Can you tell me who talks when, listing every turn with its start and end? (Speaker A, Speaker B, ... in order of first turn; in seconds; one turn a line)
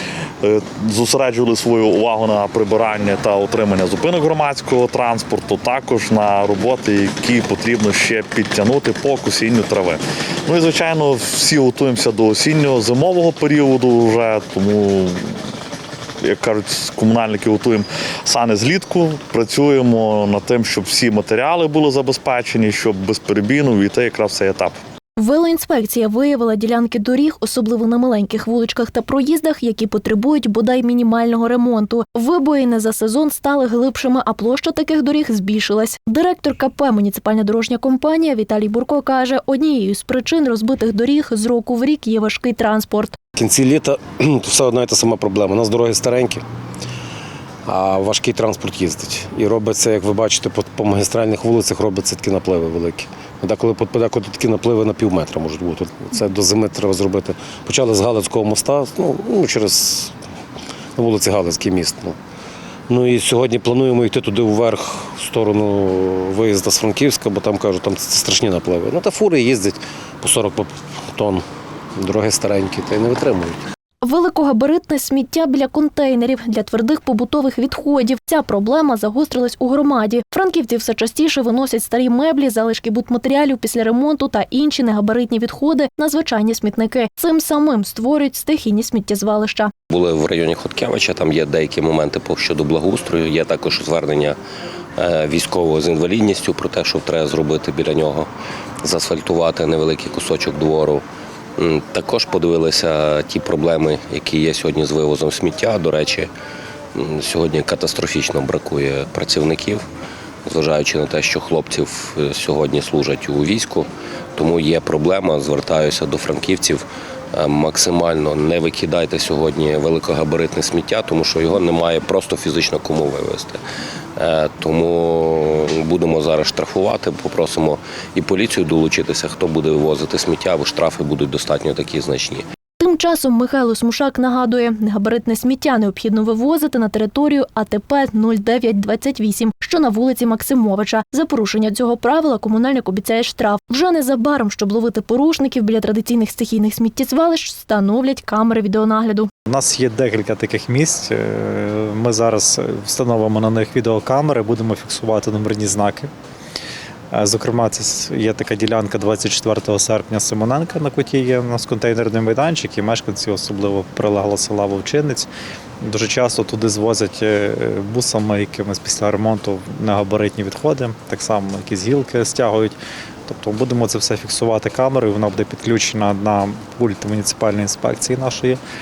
Speaker A: 0.4-15.2
Speaker A: 16.2-24.8
Speaker B: 25.2-43.2
Speaker C: 43.4-46.4
Speaker C: 47.7-60.1
Speaker C: 61.0-62.2
Speaker C: 62.9-71.5
Speaker C: 72.0-73.6
Speaker B: 74.0-89.7
Speaker D: 89.9-94.4
Speaker D: 95.0-98.3
Speaker D: 98.8-101.0
Speaker D: 101.6-106.3
Speaker D: 107.0-109.9
Speaker D: 110.5-123.6
Speaker D: 124.2-132.4
Speaker B: 132.8-149.3
Speaker E: 149.5-156.1
Speaker E: 157.1-165.3
Speaker E: 165.8-178.6